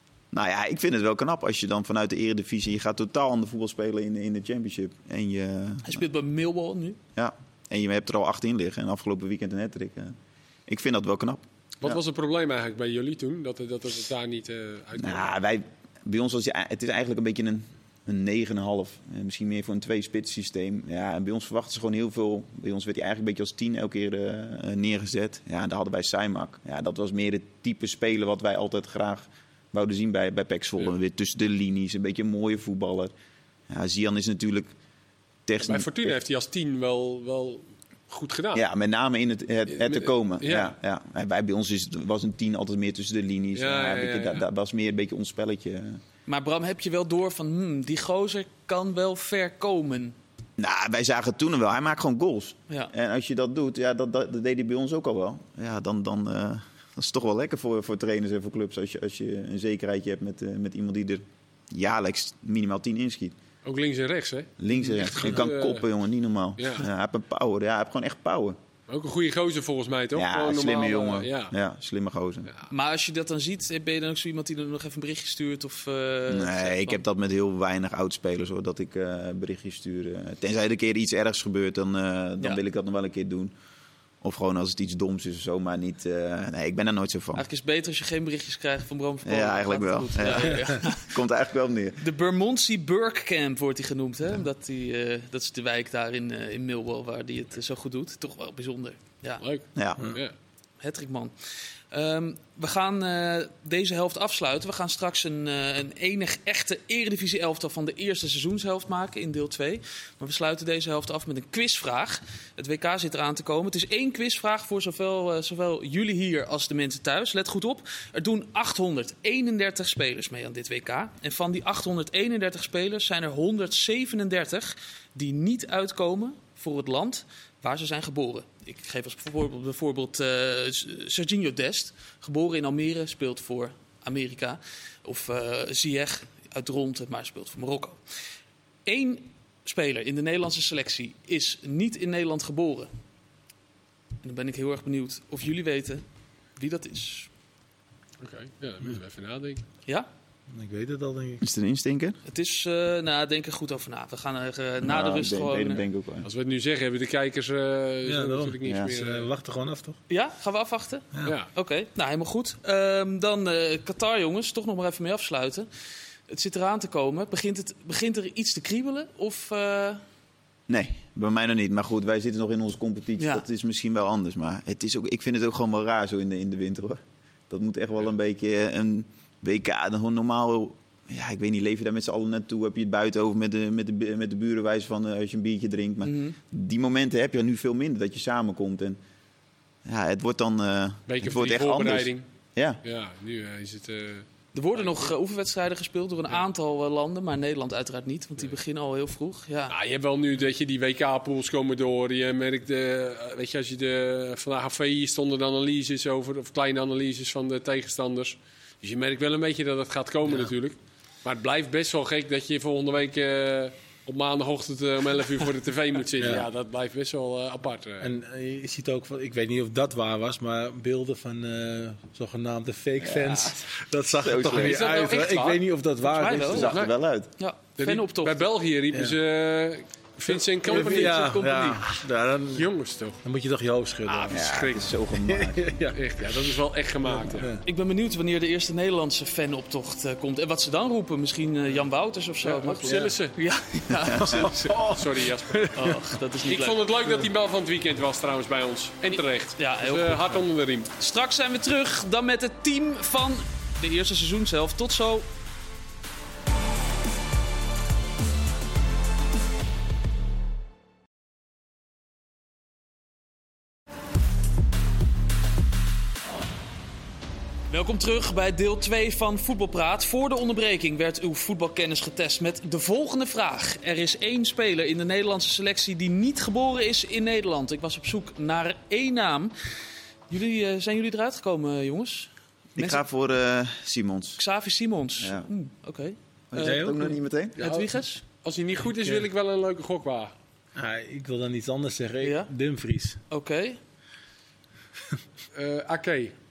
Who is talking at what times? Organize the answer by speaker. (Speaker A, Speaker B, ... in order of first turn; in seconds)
Speaker A: 0.3-6.0, 7.2-10.2, 10.7-12.0, 15.0-33.1, 33.7-34.7, 35.5-36.2, 38.5-46.0, 50.6-63.4, 64.6-68.6, 70.2-72.5, 76.3-83.5, 84.2-87.4, 89.2-92.0, 99.8-100.0, 151.4-152.2, 154.8-156.3, 158.6-158.9, 170.7-189.0, 189.8-192.8, 223.0-225.0, 226.4-227.3, 234.3-235.7, 282.8-284.4, 285.2-285.5, 286.5-287.6
Speaker B: 5.8-7.0, 46.3-50.1, 72.7-77.0, 87.3-91.2, 92.0-99.4, 100.8-101.3, 101.9-138.0, 138.9-142.9, 144.2-146.0, 146.6-147.3, 152.3-155.8, 160.1-165.7, 166.3-170.0, 173.2-173.4, 186.0-186.4, 194.5-199.8, 226.0-226.8, 227.4-228.5, 230.7-231.9, 237.6-244.8, 245.8-246.8, 249.6-250.4, 251.0-255.3, 267.7-279.5, 280.3-283.0, 284.4-288.2, 292.2-292.5, 293.3-293.8
Speaker C: 11.8-15.3, 35.6-38.6, 39.7-40.7, 43.5-44.4, 63.6-65.9, 66.6-66.9, 68.9-71.5, 99.4-100.3, 148.2-149.6, 156.2-159.3, 161.2-161.5, 191.1-192.2, 192.8-195.1, 199.7-218.1, 224.5-225.6, 226.5-226.9, 227.8-231.3, 232.5-233.2, 234.1-234.9, 235.9-237.6, 242.4-243.4, 244.5-245.9, 246.4-250.9, 287.6-287.9, 288.4-290.3, 295.5-296.3
Speaker D: 150.5-151.4, 158.1-160.0, 216.2-216.5, 218.0-226.8, 228.9-229.2, 230.3-232.7, 233.2-234.4, 235.2-236.4, 237.1-237.6, 242.9-243.1, 244.1-246.0, 286.6-287.0, 290.8-293.2